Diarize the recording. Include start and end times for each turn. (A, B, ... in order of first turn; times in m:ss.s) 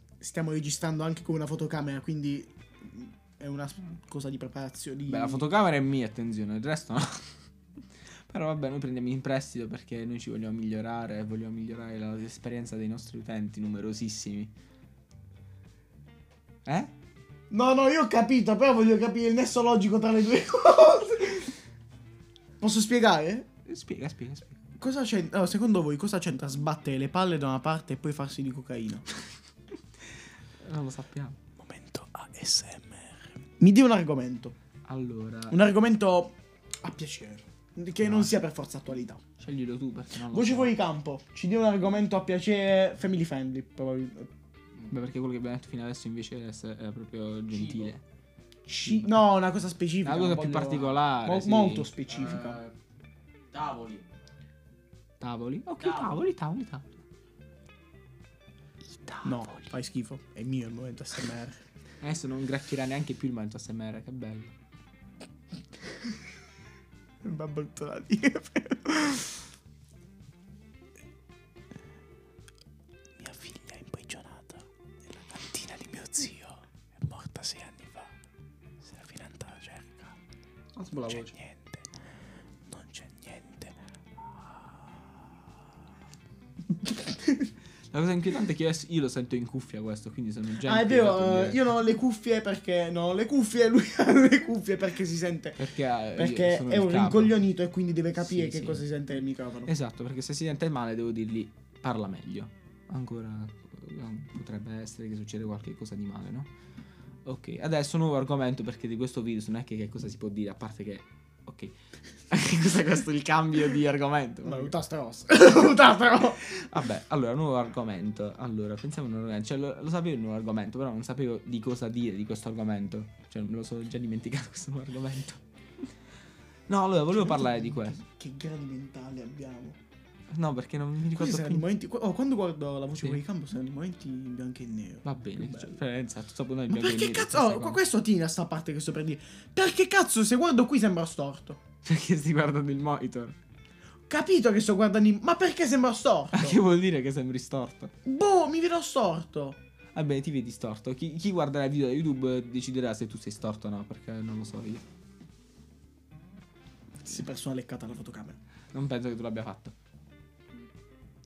0:00.2-0:05.4 A
0:05.1-0:07.4 B
0:08.3-0:14.5 B
0:16.7-0:16.9 B
0:17.5-0:21.6 A
0:22.6-0:23.5 A
0:23.7-0:24.6 B
0:24.8-0:29.1 A
0:30.6-0:31.4 B
0:31.6-0:34.6 A
0:34.8-0:35.6 B
0:35.5-0:39.2 A
0:38.0-0:38.3 B
0:39.4-0:40.8 B
0:40.2-0:44.3 A
0:44.9-0:48.0 B
0:47.5-0:47.9 C
0:48.7-0:52.6 A
0:48.7-0:49.1 B
0:50.0-0:51.9 B
0:52.1-0:52.8 C
0:53.5-0:54.1 C
0:55.2-0:57.0 B
0:55.8-0:56.2 C
0:59.1-0:59.7 B
0:59.2-1:01.6 A
1:02.0-1:04.5 B
1:07.2-1:09.4 A
1:13.2-1:18.1 A
1:18.8-1:20.2 A
1:20.8-1:21.3 B
1:20.9-1:21.7 A
1:22.7-1:23.8 A
1:24.5-1:24.8 A
1:27.9-1:31.7 B
1:30.6-1:39.7 A
1:35.6-1:37.4 B
1:38.2-1:38.8 B
1:39.7-1:46.5 B
1:47.2-1:51.8 B
1:52.3-1:54.8 B
1:54.4-1:56.5 A
1:56.4-2:05.4 B
2:06.7-2:08.0 B
2:07.2-2:09.8 A
2:10.3-2:11.6 B
2:11.2-2:15.7 A
2:15.0-2:17.8 B
2:16.7-2:21.6 A
2:21.8-2:23.4 B
2:24.1-2:26.6 A
2:26.3-2:27.9 B
2:28.0-2:29.6 A
2:29.9-2:34.8 B
2:37.0-2:38.4 A
2:38.7-2:39.8 B